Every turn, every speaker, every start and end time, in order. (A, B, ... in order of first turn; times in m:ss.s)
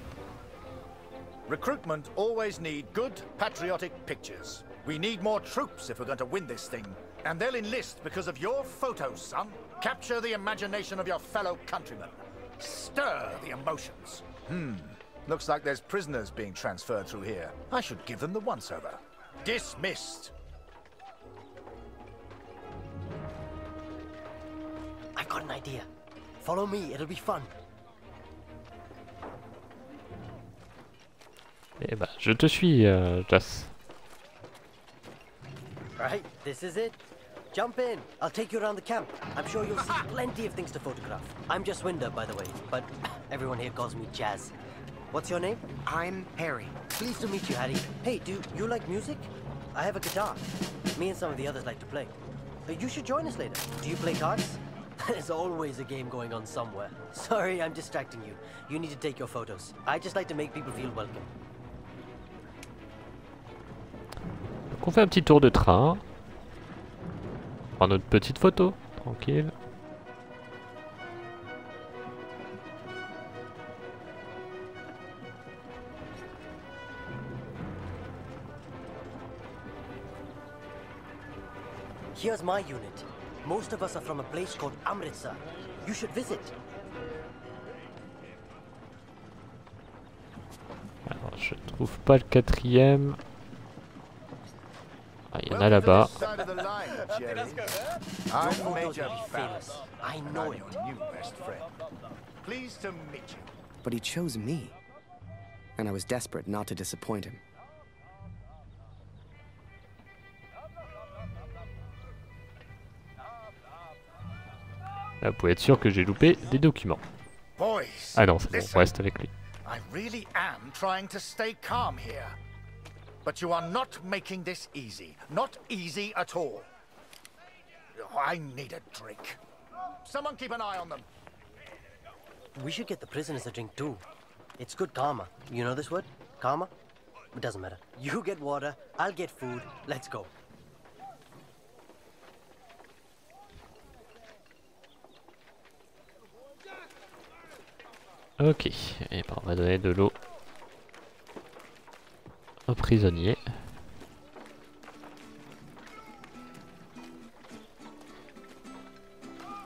0:01.5-0:20.3 A
0:25.2-0:25.9 B
0:26.4-0:27.5 B
0:31.8-0:33.7 C
0:36.0-0:37.0 B
0:37.5-0:44.5 B
0:45.1-0:45.6 B
0:45.8-0:46.8 D
0:46.9-0:50.4 B
0:51.0-0:52.2 B
0:52.7-1:01.3 B
1:04.7-1:06.0 C
1:07.8-1:09.5 C
1:22.1-1:26.6 B
1:31.1-1:33.2 C
1:35.3-1:36.1 C
1:35.5-1:37.8 A
1:38.3-1:41.7 A
1:38.3-1:40.8 B
1:42.4-1:43.5 A
1:43.8-1:44.8 D
1:45.8-1:47.4 D
1:55.2-1:57.0 C
1:57.6-1:58.9 A
1:58.2-1:59.3 C
1:59.6-2:02.4 A
2:03.2-2:06.7 A
2:07.9-2:09.4 A
2:10.0-2:11.1 A
2:12.6-2:14.0 B
2:14.6-2:16.7 B
2:17.3-2:20.3 B
2:28.4-2:30.2 C
2:32.7-2:33.5 C